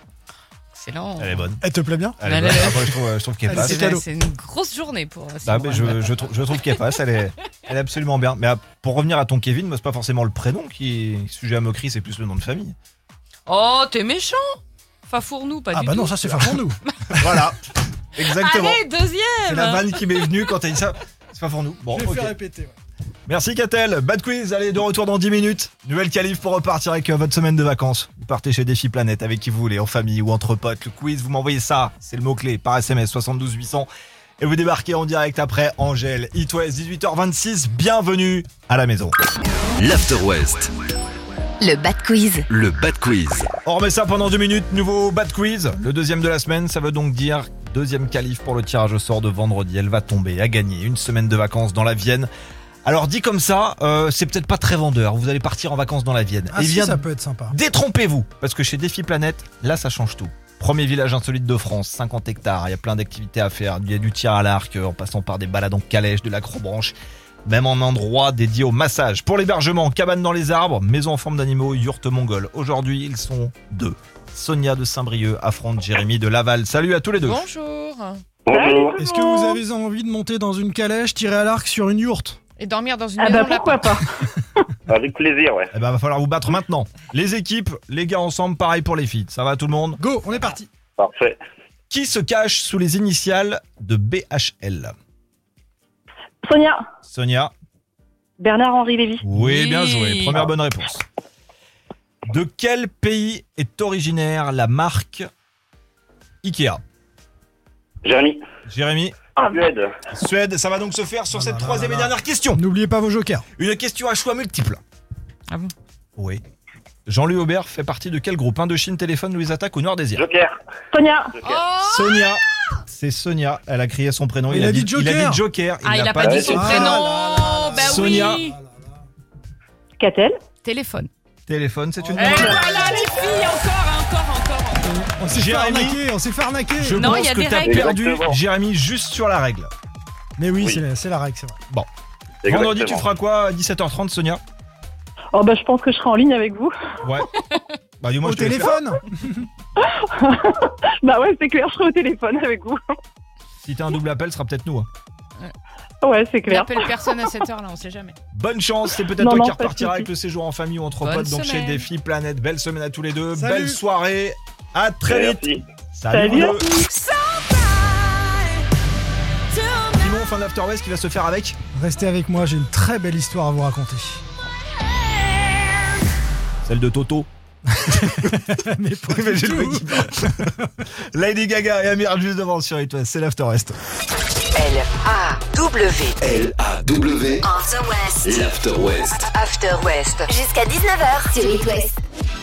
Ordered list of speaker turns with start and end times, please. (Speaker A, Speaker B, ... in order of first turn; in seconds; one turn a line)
Speaker A: 0.7-1.4
Speaker B: 1.2-1.6
Speaker C: 1.6-2.2
Speaker B: 2.2-3.9
Speaker A: 2.2-3.0
Speaker C: 3.5-4.0
Speaker A: 3.5-6.2
Speaker B: 5.4-12.7
Speaker A: 13.4-16.5
Speaker C: 15.7-17.4
Speaker B: 17.2-17.6
Speaker B: 18.1-18.8
Speaker A: 18.2-20.3
Speaker B: 19.5-22.3
Speaker C: 21.9-22.7
Speaker B: 23.3-33.9
Speaker B: 34.4-39.2
Speaker D: 39.8-40.7
Speaker E: 41.6-42.5
Speaker D: 42.5-43.5
Speaker B: 43.6-52.3
Speaker B: 52.8-77.4
Speaker C: 56.5-57.5
Speaker A: 77.2-78.2
Speaker F: 78.5-78.9
Speaker G: 78.5-79.5
Speaker C: 79.0-82.4
Speaker A: 82.6-84.0
Speaker G: 83.2-84.0
Speaker F: 84.9-85.7
Speaker B: 85.7-90.0
Speaker C: 90.0-90.7
Speaker F: 91.0-91.3
Speaker B: 91.9-94.9
Speaker G: 96.4-96.8
Speaker B: 97.1-97.5
Speaker G: 98.4-99.2
Speaker B: 99.2-101.0
Speaker A: 99.3-100.4
Speaker B: 102.3-105.3
Speaker B: 106.4-106.8
Speaker F: 108.0-108.4
Speaker B: 108.7-109.1
Speaker G: 109.4-109.7
Speaker F: 109.4-109.9
Speaker B: 110.1-112.6
Speaker C: 111.3-113.5
Speaker B: 113.6-114.8
Speaker B: 116.2-116.4
Speaker B: 117.1-120.2
Speaker F: 120.2-120.5
Speaker G: 120.9-121.4
Speaker A: 121.4-122.2
Speaker B: 121.8-127.0
Speaker C: 124.5-125.4
Speaker A: 125.8-128.6
Speaker C: 126.4-128.7
Speaker B: 127.8-128.4
Speaker G: 130.0-130.4
Speaker A: 130.6-131.1
Speaker B: 131.5-133.0
Speaker C: 132.0-132.5
Speaker A: 132.1-134.9
Speaker G: 132.3-132.9
Speaker C: 134.8-137.2
Speaker B: 135.3-136.0
Speaker B: 136.8-139.7
Speaker A: 137.0-137.9
Speaker F: 137.7-138.3
Speaker C: 140.4-141.6
Speaker F: 142.4-143.0
Speaker B: 142.5-144.4
Speaker G: 145.3-146.7
Speaker B: 148.0-148.8
Speaker C: 148.2-149.4
Speaker G: 149.8-152.8
Speaker B: 153.6-154.9
Speaker G: 156.0-156.7
Speaker A: 156.4-158.2
Speaker B: 158.3-166.6
Speaker G: 159.2-160.1
Speaker A: 161.0-161.8
Speaker C: 163.3-163.8
Speaker F: 165.1-165.5
Speaker G: 166.1-166.7
Speaker A: 166.7-168.6
Speaker A: 169.5-170.1
Speaker B: 169.9-171.6
Speaker C: 171.7-174.2
Speaker B: 176.6-177.3
Speaker C: 177.9-180.7
Speaker B: 177.9-180.5
Speaker B: 181.1-183.8
Speaker H: 184.5-186.1
Speaker D: 186.2-187.5
Speaker E: 187.4-188.2
Speaker D: 188.2-189.2
Speaker H: 189.3-190.3
Speaker E: 190.2-191.9